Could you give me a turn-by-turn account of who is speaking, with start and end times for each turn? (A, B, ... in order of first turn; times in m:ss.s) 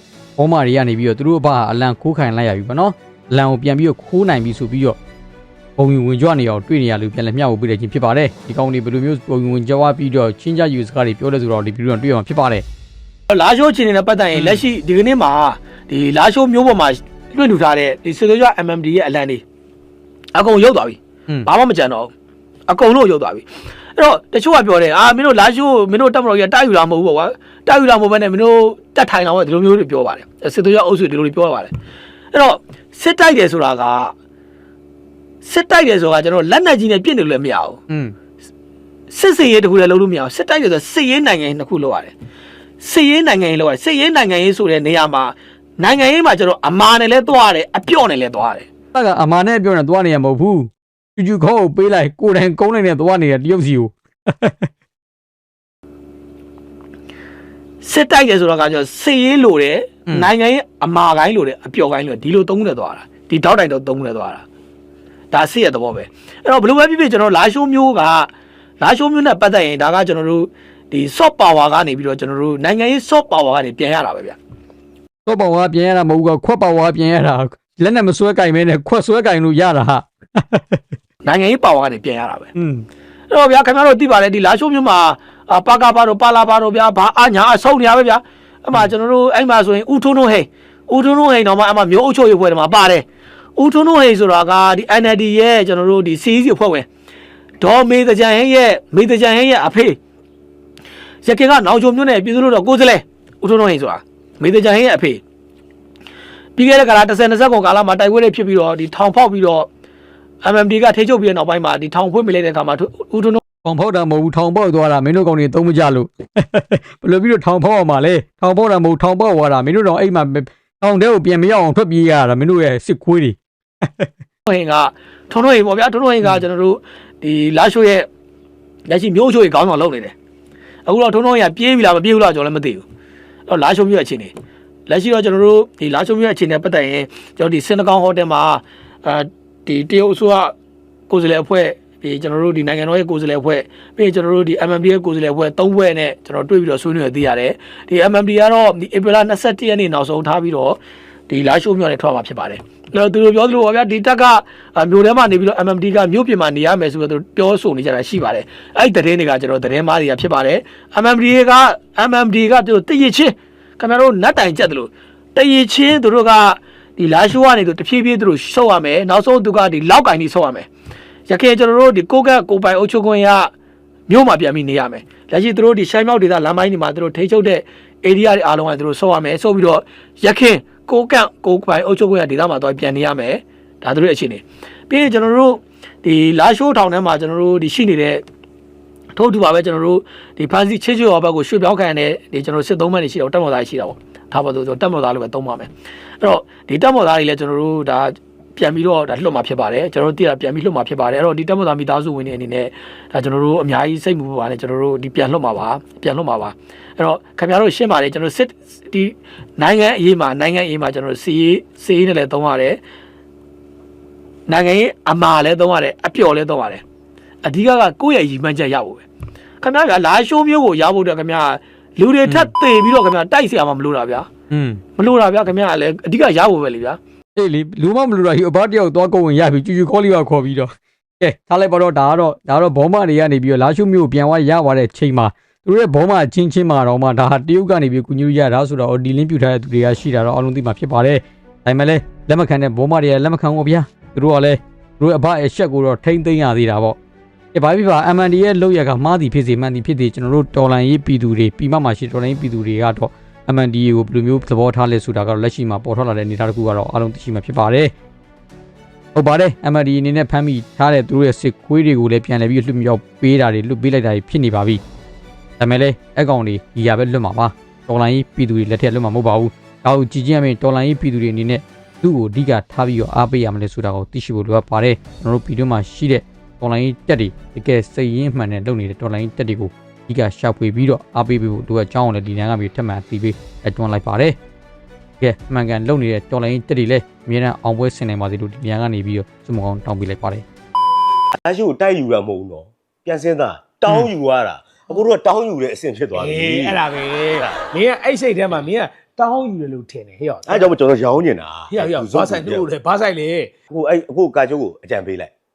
0:00.4-0:05.0 A
0:05.8-0:12.6 A
0:13.3-0:19.4 B
0:14.3-0:14.6 A
0:20.3-0:22.1 B
0:22.7-0:23.4 B
0:24.0-0:31.7 B
0:32.3-0:34.1 B
0:35.4-0:37.8 B
0:37.9-0:38.1 A
0:39.1-0:42.1 B
0:42.8-0:48.6 B
0:48.9-0:54.7 A
0:57.8-1:04.4 B
1:05.3-1:08.3 B
1:08.8-1:14.4 B
1:15.2-1:20.8 A
1:21.2-1:22.5 B
1:22.5-1:22.8 A
1:23.3-1:33.0 B
1:33.6-1:36.8 B
1:37.6-1:40.0 B
1:41.2-1:45.2 B
1:46.6-1:49.7 B
1:50.4-1:53.4 B
1:53.6-2:04.1 A
2:04.5-2:08.1 B
2:08.9-2:10.1 B
2:10.9-2:12.8 B
2:13.5-2:14.3 B
2:14.9-2:20.5 B
2:21.1-2:50.7 B
2:51.3-2:53.5 B
2:54.1-3:08.2 B
3:09.1-3:15.7 B
3:16.2-3:32.8 B
3:34.5-3:36.8 B
3:37.4-3:39.0 B
3:39.6-3:44.3 B
3:44.5-3:44.8 A
3:45.0-3:47.0 B
3:47.4-4:07.0 A
4:07.5-4:17.9 A
4:19.1-4:24.8 A
4:25.6-4:44.4 A
4:45.2-4:50.4 A
4:51.4-4:56.8 C
4:56.2-5:00.7 D
5:00.4-5:02.7 C
5:01.7-5:03.6 D
5:03.7-5:05.3 C